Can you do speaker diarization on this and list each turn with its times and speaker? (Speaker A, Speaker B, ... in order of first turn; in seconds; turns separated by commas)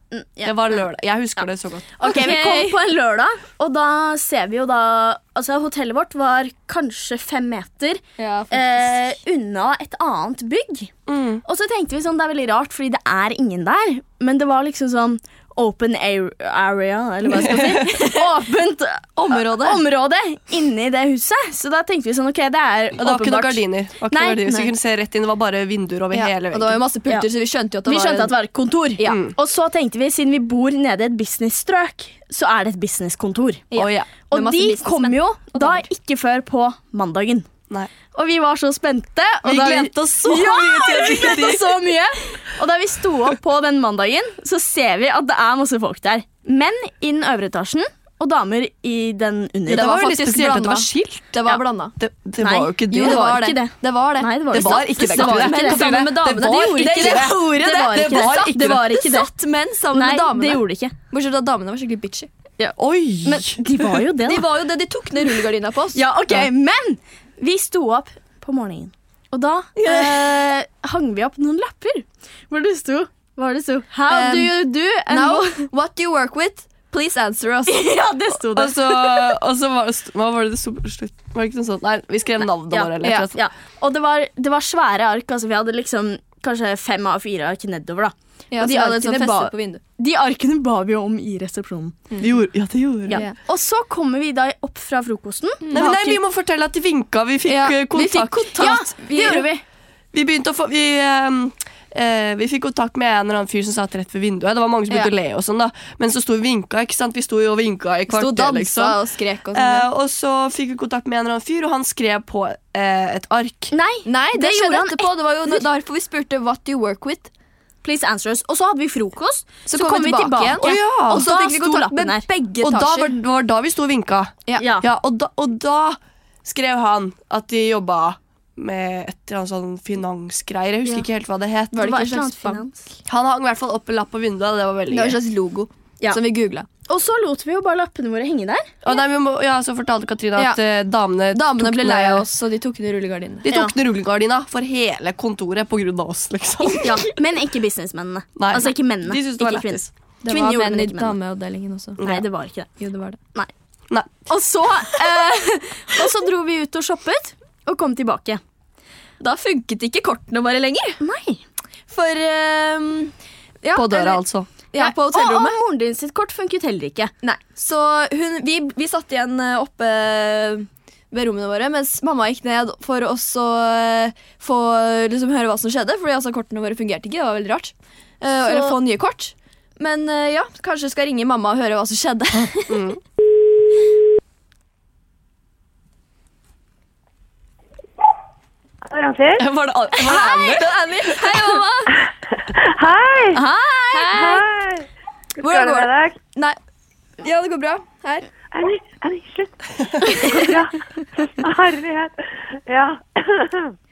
Speaker A: 0.1-0.8, Speaker B: 0.4-2.0, Speaker A: 2.0-10.9, Speaker C: 2.0-2.8, Speaker C: 8.2-8.9, Speaker B: 11.1-11.4, Speaker A: 11.4-24.6, Speaker B: 17.4-17.8, Speaker C: 18.0-18.5, Speaker C: 19.1-19.8, Speaker B: 23.0-26.8, Speaker C: 26.1-28.3, Speaker A: 27.9-33.7, Speaker B: 29.1-29.4, Speaker C: 33.7-35.9, Speaker A: 34.3-37.5, Speaker A: 38.1-49.9, Speaker B: 39.4-41.8, Speaker B: 49.7-51.3, Speaker C: 49.7-52.0, Speaker B: 52.0-53.3, Speaker A: 52.4-56.1, Speaker C: 52.9-62.3, Speaker B: 54.5-58.9, Speaker A: 56.7-59.3, Speaker A: 59.9-60.9, Speaker A: 62.6-64.4, Speaker B: 62.8-63.6, Speaker C: 64.2-66.0, Speaker A: 66.0-75.7, Speaker C: 69.8-70.4, Speaker C: 74.1-77.9, Speaker A: 77.7-79.3, Speaker B: 78.5-83.4, Speaker A: 82.7-92.0, Speaker C: 83.0-83.3, Speaker C: 88.5-89.8, Speaker B: 92.2-93.2, Speaker A: 93.1-96.2, Speaker C: 93.1-93.4, Speaker C: 95.6-95.9, Speaker B: 95.7-98.8, Speaker C: 97.5-99.5, Speaker A: 98.5-99.6, Speaker B: 100.1-109.0, Speaker C: 108.1-109.9, Speaker B: 109.5-113.7, Speaker A: 113.7-115.6, Speaker C: 114.1-117.3, Speaker A: 117.8-122.3, Speaker C: 119.7-123.2, Speaker B: 120.6-121.3, Speaker B: 122.6-131.9, Speaker A: 124.6-124.9, Speaker C: 131.7-132.6, Speaker A: 131.8-132.9, Speaker B: 133.1-135.2, Speaker C: 134.9-136.7, Speaker A: 136.9-138.8, Speaker B: 138.8-142.2, Speaker C: 141.3-143.4, Speaker B: 143.4-147.0, Speaker A: 146.8-151.2, Speaker B: 148.4-149.9, Speaker C: 150.2-152.0, Speaker B: 152.0-152.2, Speaker A: 152.0-152.7, Speaker C: 152.8-153.2, Speaker A: 154.3-158.4, Speaker C: 159.2-161.0, Speaker A: 161.0-161.4, Speaker C: 161.9-165.6, Speaker B: 163.7-164.5, Speaker A: 164.8-167.1, Speaker C: 167.2-182.8, Speaker A: 178.4-178.7, Speaker B: 182.7-183.0, Speaker D: 188.8-189.5, Speaker B: 189.4-191.3, Speaker C: 190.1-191.9, Speaker A: 190.1-190.5, Speaker D: 192.0-193.4, Speaker C: 193.3-194.4, Speaker A: 193.4-194.0, Speaker D: 194.0-194.9, Speaker D: 195.4-196.2, Speaker C: 195.4-196.6, Speaker C: 197.2-198.3, Speaker D: 198.5-203.7